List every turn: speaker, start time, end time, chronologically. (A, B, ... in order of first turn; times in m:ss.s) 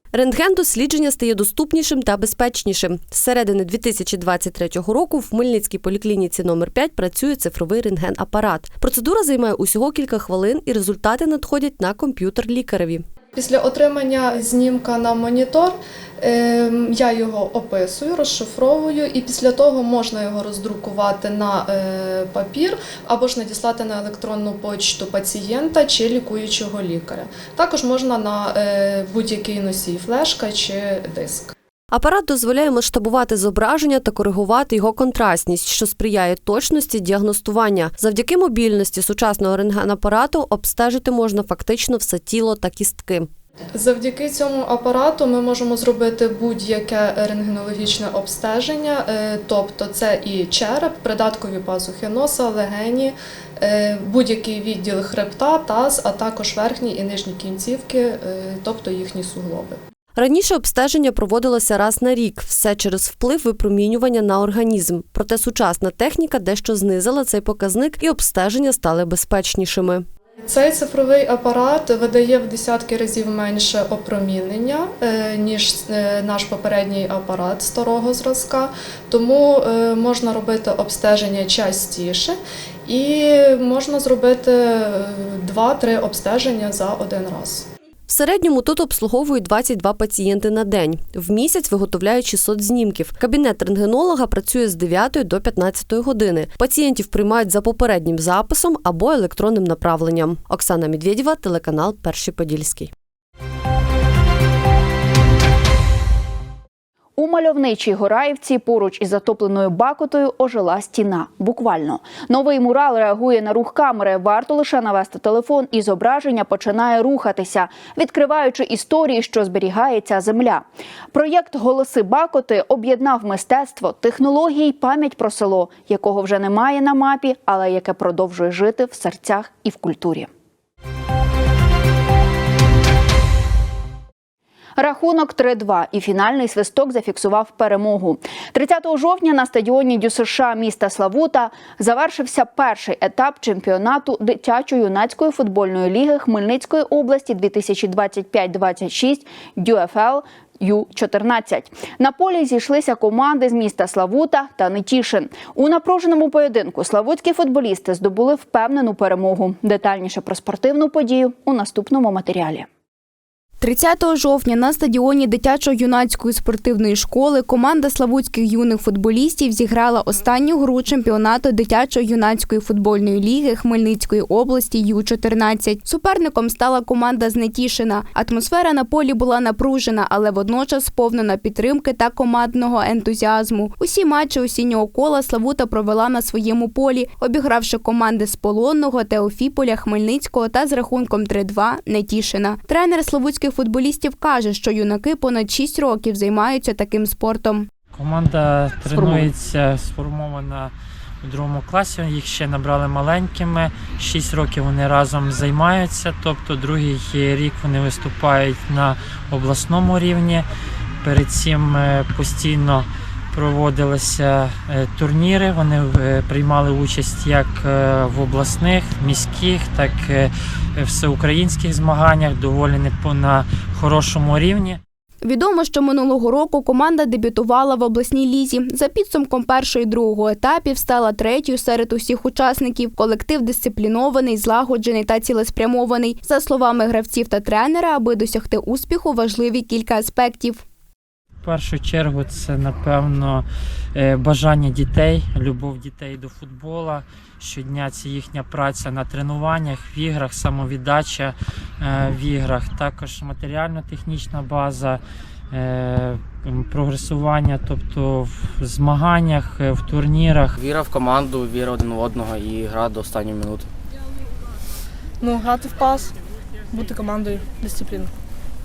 0:00.1-0:13.1 A
0:13.3-0:31.5 B
0:31.9-0:43.3 A
0:43.8-0:59.8 B
1:00.2-1:10.1 A
1:10.4-1:27.7 B
1:28.1-1:42.9 A
1:47.2-2:10.3 C
2:14.8-2:42.7 C
2:43.6-3:17.7 D
3:17.9-3:30.5 E
3:31.0-3:44.8 E
3:45.2-4:00.6 D
4:01.4-4:20.6 E
4:20.6-4:23.7 F
4:25.2-4:26.1 G
4:26.7-4:28.1 G